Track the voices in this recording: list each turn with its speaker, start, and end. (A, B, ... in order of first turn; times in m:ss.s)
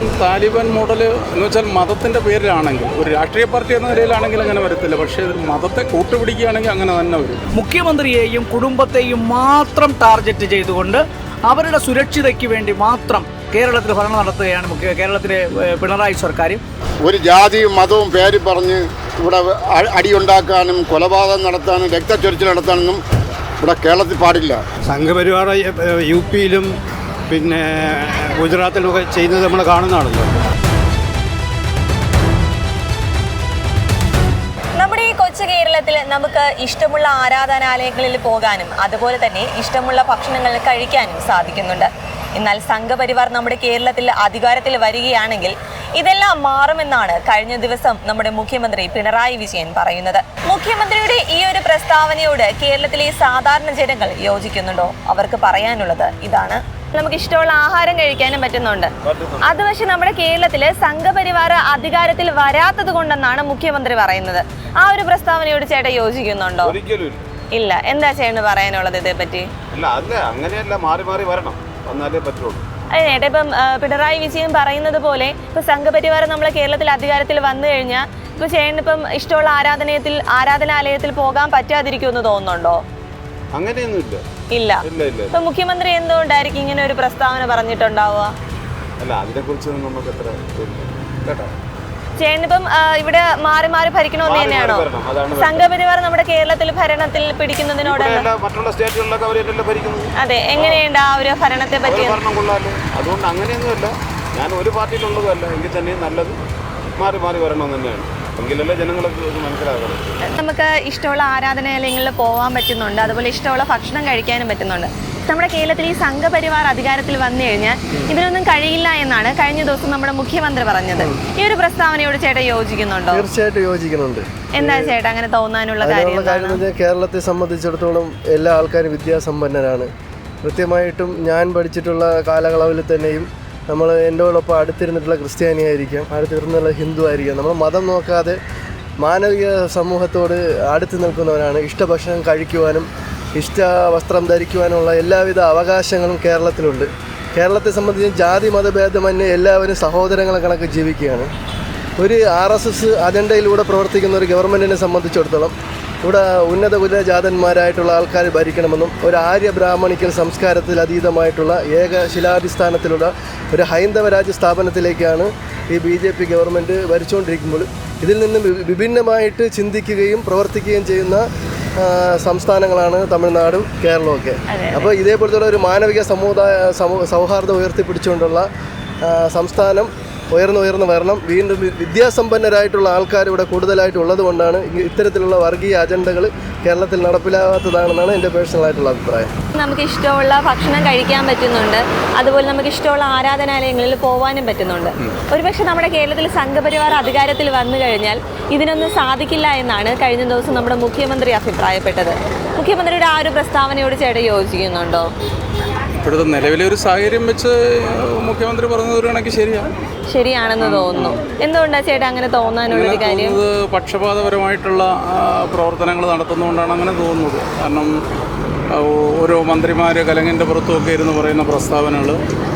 0:00.2-0:07.4 A
0:07.6-0:16.6 B
0:17.0-0:23.0 C
0:23.6-0:24.6 C
0:24.9-0:26.7 D
0:27.3-0:30.3 D
0:34.8-0:58.9 E
0:59.0-0:59.4 F
0:59.4-1:06.8 E
1:06.7-1:07.3 F
1:07.6-1:09.5 E
1:09.7-1:12.7 F
1:13.0-1:22.8 E
1:23.5-1:24.2 F
1:24.5-1:28.3 E
1:24.9-1:25.4 F
1:29.0-1:31.5 F
1:32.2-1:38.3 E
1:34.2-1:35.6 F
1:37.8-1:40.8 F
1:40.2-1:42.2 E
1:41.8-1:46.4 F
1:47.0-1:50.0 F
1:50.3-2:03.2 E
2:03.1-2:04.9 G
2:04.6-2:06.6 E
2:05.8-2:09.9 G
2:10.4-2:18.4 G
2:19.0-2:31.3 G
2:32.0-2:35.5 G
2:36.0-2:51.2 G
2:51.8-2:58.5 G
2:54.5-2:54.9 E
2:59.1-3:09.3 G
3:09.6-3:25.1 E
3:26.0-3:29.7 A
3:30.1-3:33.4 E
3:30.6-3:31.2 A
3:32.7-3:37.9 A
3:38.7-3:42.2 A